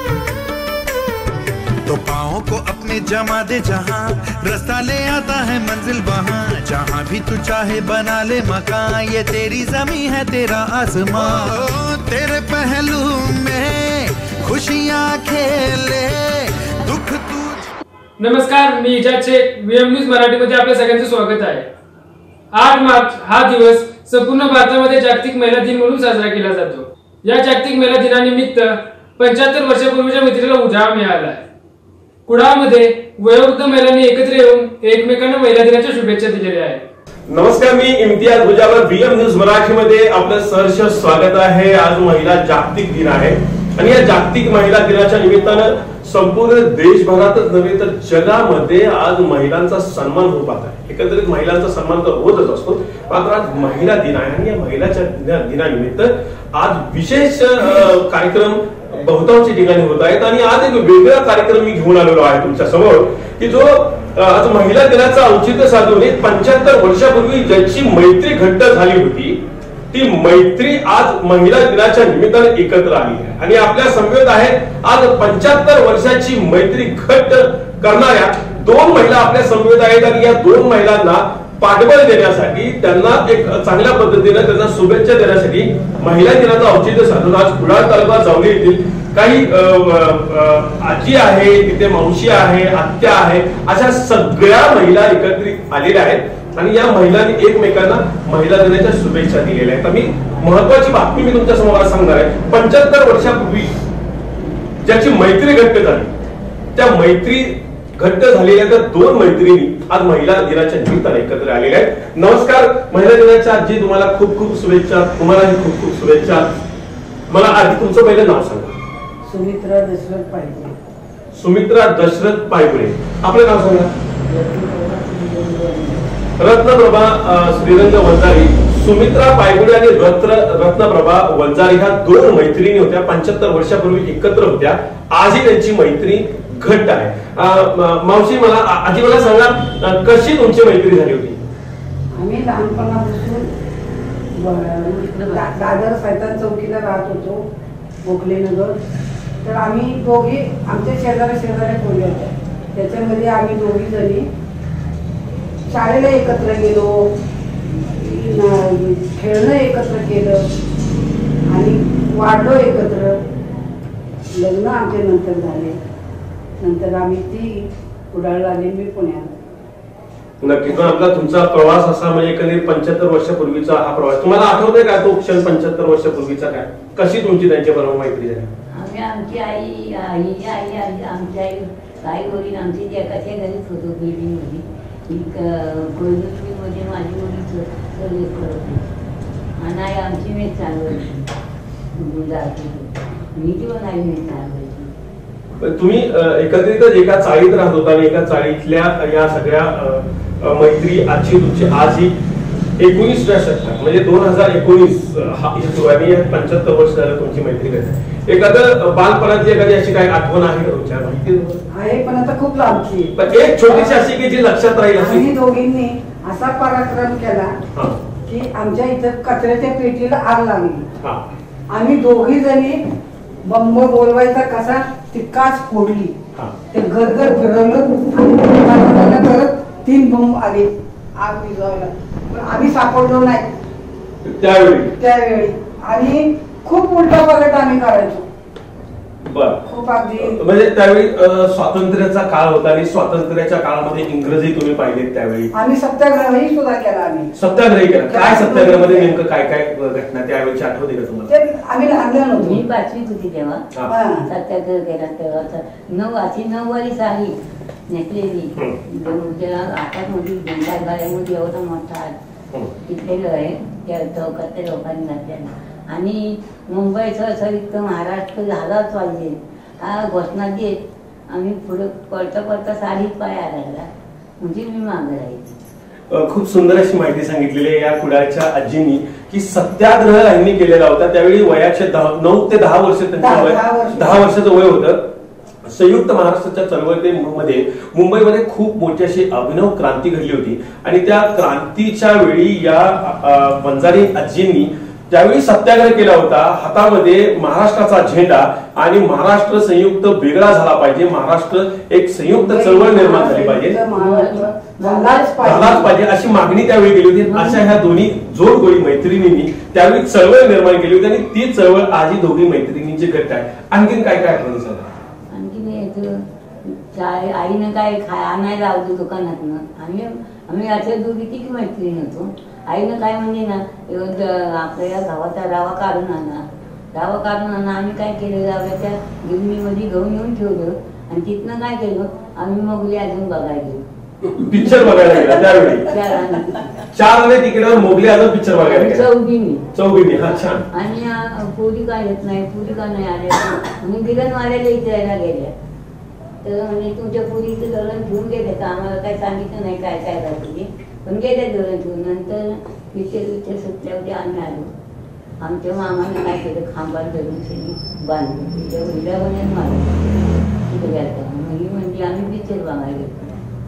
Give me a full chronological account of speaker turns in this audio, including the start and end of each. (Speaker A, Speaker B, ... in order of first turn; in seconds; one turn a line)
Speaker A: 1.8-17.7
Speaker B: 18.2-21.6
Speaker B: 22.5-31.4
Speaker B: 32.3-36.8
Speaker C: 37.3-69.4
Speaker C: 69.9-103.7
Speaker C: 104.8-106.1
Speaker C: 106.8-116.6
Speaker C: 117.3-118.7
Speaker D: 119.2-120.7
Speaker C: 121.3-123.9
Speaker E: 124.3-126.1
Speaker C: 126.4-141.4
Speaker D: 142.1-143.5
Speaker D: 144.3-147.4
Speaker D: 148.0-148.8
Speaker D: 149.4-154.2
Speaker D: 155.7-157.1
Speaker D: 157.8-160.5
Speaker D: 161.5-163.2
Speaker D: 164.3-165.8
Speaker D: 166.6-169.3
Speaker C: 170.4-178.5
Speaker E: 178.7-188.9
Speaker E: 189.6-191.3
Speaker E: 191.9-194.9
Speaker C: 195.6-202.1
Speaker C: 202.8-211.6
Speaker D: 211.7-213.1
Speaker C: 213.2-215.3
Speaker D: 213.7-214.1
Speaker D: 214.9-217.5
Speaker D: 218.2-220.8
Speaker D: 221.7-222.8
Speaker D: 223.4-226.1
Speaker D: 226.7-233.5
Speaker C: 234.2-234.9
Speaker D: 235.0-238.2
Speaker C: 239.2-239.6
Speaker D: 239.7-240.4
Speaker C: 240.2-245.5
Speaker D: 245.5-247.3
Speaker C: 247.4-251.3
Speaker D: 247.9-249.1
Speaker D: 251.3-252.6
Speaker E: 252.4-253.6
Speaker D: 253.9-254.2
Speaker E: 254.2-257.3
Speaker E: 257.9-262.1
Speaker E: 262.9-273.9
Speaker E: 274.4-275.6
Speaker C: 276.1-285.1
Speaker D: 283.2-284.3
Speaker C: 285.6-303.8
Speaker D: 302.3-305.9
Speaker E: 303.9-305.7
Speaker C: 305.5-314.9
Speaker E: 307.2-307.7
Speaker E: 315.3-333.8
Speaker C: 334.3-335.9
Speaker E: 335.6-336.8
Speaker C: 336.9-339.1
Speaker E: 338.6-339.6
Speaker C: 339.7-340.6
Speaker E: 340.7-345.5
Speaker E: 346.4-354.7
Speaker E: 355.4-360.1
Speaker E: 360.7-363.4